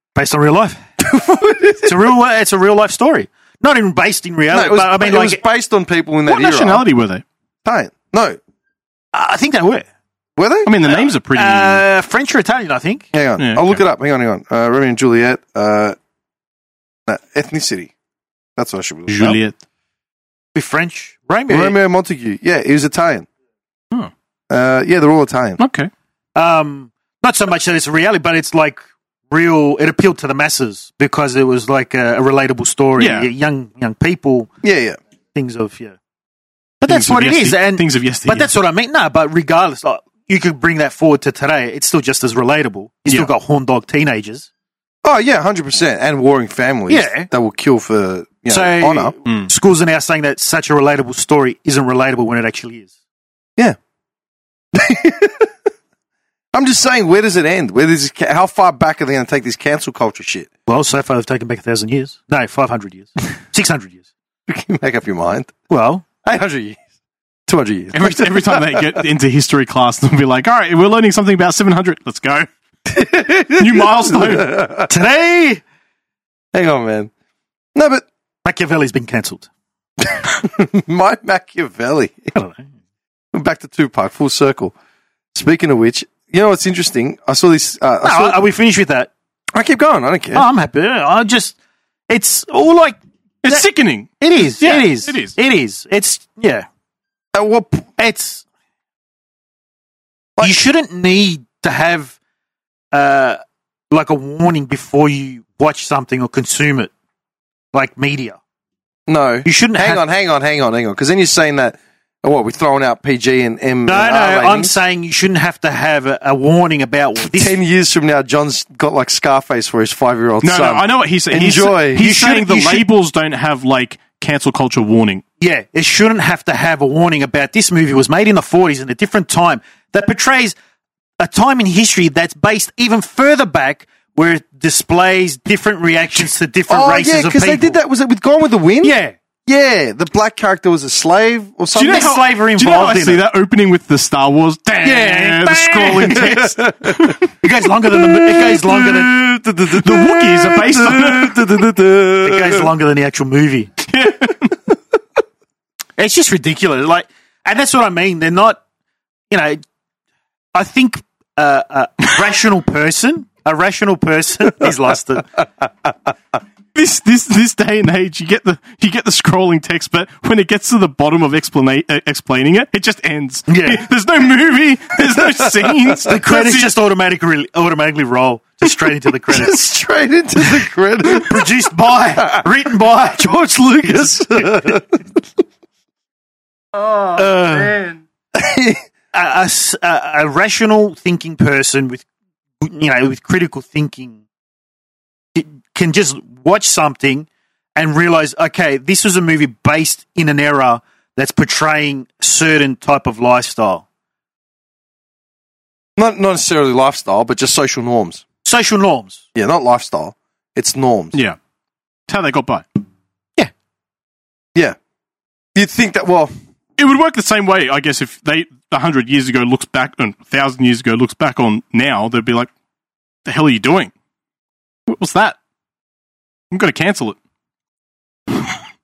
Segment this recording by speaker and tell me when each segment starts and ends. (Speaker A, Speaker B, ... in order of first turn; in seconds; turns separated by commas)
Speaker A: 0.2-0.8, Speaker B: 1.0-2.1, Speaker A: 1.8-5.4, Speaker B: 4.5-6.8, Speaker C: 6.3-7.2, Speaker B: 7.7-8.4, Speaker A: 9.1-9.9, Speaker B: 10.4-10.8, Speaker C: 10.7-11.8, Speaker A: 10.9-13.1, Speaker B: 13.1-16.0, Speaker C: 13.4-13.8, Speaker B: 17.1-17.9, Speaker B: 18.6-19.4, Speaker C: 19.1-19.6, Speaker A: 20.6-21.8, Speaker B: 21.5-23.3, Speaker B: 24.5-25.6, Speaker C: 25.6-25.9, Speaker A: 26.4-34.5, Speaker C: 33.0-33.3, Speaker B: 34.6-35.0, Speaker A: 35.4-36.0, Speaker A: 36.8-44.5, Speaker C: 36.8-38.5, Speaker B: 45.0-49.1, Speaker A: 46.9-47.3, Speaker A: 48.5-52.9, Speaker B: 54.7-55.5, Speaker B: 56.5-60.5, Speaker A: 60.7-64.1, Speaker B: 64.5-65.5, Speaker A: 65.7-66.0, Speaker B: 66.2-66.8, Speaker B: 67.5-69.0, Speaker C: 67.9-72.5, Speaker B: 72.9-74.9, Speaker C: 73.6-74.5, Speaker A: 74.9-75.6, Speaker B: 76.5-77.1, Speaker B: 77.8-78.1, Speaker A: 78.4-79.5, Speaker B: 80.0-82.3, Speaker A: 82.3-82.6, Speaker B: 83.3-84.8, Speaker B: 85.3-88.4, Speaker A: 88.0-89.1, Speaker B: 89.5-90.5, Speaker A: 90.3-91.5, Speaker A: 92.1-93.7, Speaker C: 93.4-95.3, Speaker A: 94.2-96.7, Speaker B: 97.3-97.9, Speaker A: 98.0-98.5, Speaker A: 100.4-102.2, Speaker A: 102.9-103.4, Speaker A: 103.9-106.9, Speaker A: 107.7-108.4, Speaker B: 109.1-114.8, Speaker A: 109.5-110.0, Speaker A: 113.9-117.6, Speaker B: 117.2-122.1, Speaker C: 120.4-125.2, Speaker A: 122.0-122.8, Speaker A: 125.4-130.6, Speaker A: 131.2-137.8, Speaker B: 136.7-138.9, Speaker A: 138.8-139.2, Speaker B: 139.5-142.1, Speaker C: 141.8-147.2, Speaker A: 141.8-143.2, Speaker A: 144.8-146.2, Speaker B: 146.1-147.2, Speaker A: 147.4-149.2, Speaker B: 147.9-152.7, Speaker C: 149.7-151.6, Speaker A: 152.2-153.7, Speaker C: 153.9-154.6, Speaker A: 156.0-158.6, Speaker A: 159.3-159.6, Speaker A: 160.5-165.3, Speaker C: 166.7-176.7, Speaker A: 173.5-173.8, Speaker B: 175.0-176.0, Speaker A: 176.1-179.7, Speaker B: 179.3-181.5, Speaker A: 181.1-183.3, Speaker B: 182.2-182.5, Speaker B: 183.2-185.2, Speaker A: 183.8-184.8, Speaker B: 186.8-188.8, Speaker A: 187.2-187.8, Speaker A: 189.1-192.1, Speaker A: 192.6-194.2, Speaker A: 195.3-203.8, Speaker B: 206.0-208.2, Speaker A: 208.4-209.2, Speaker B: 209.3-211.2, Speaker C: 212.1-212.7, Speaker B: 215.6-216.3, Speaker C: 216.8-222.5, Speaker C: 223.3-223.9, Speaker C: 224.9-225.4, Speaker C: 226.5-227.2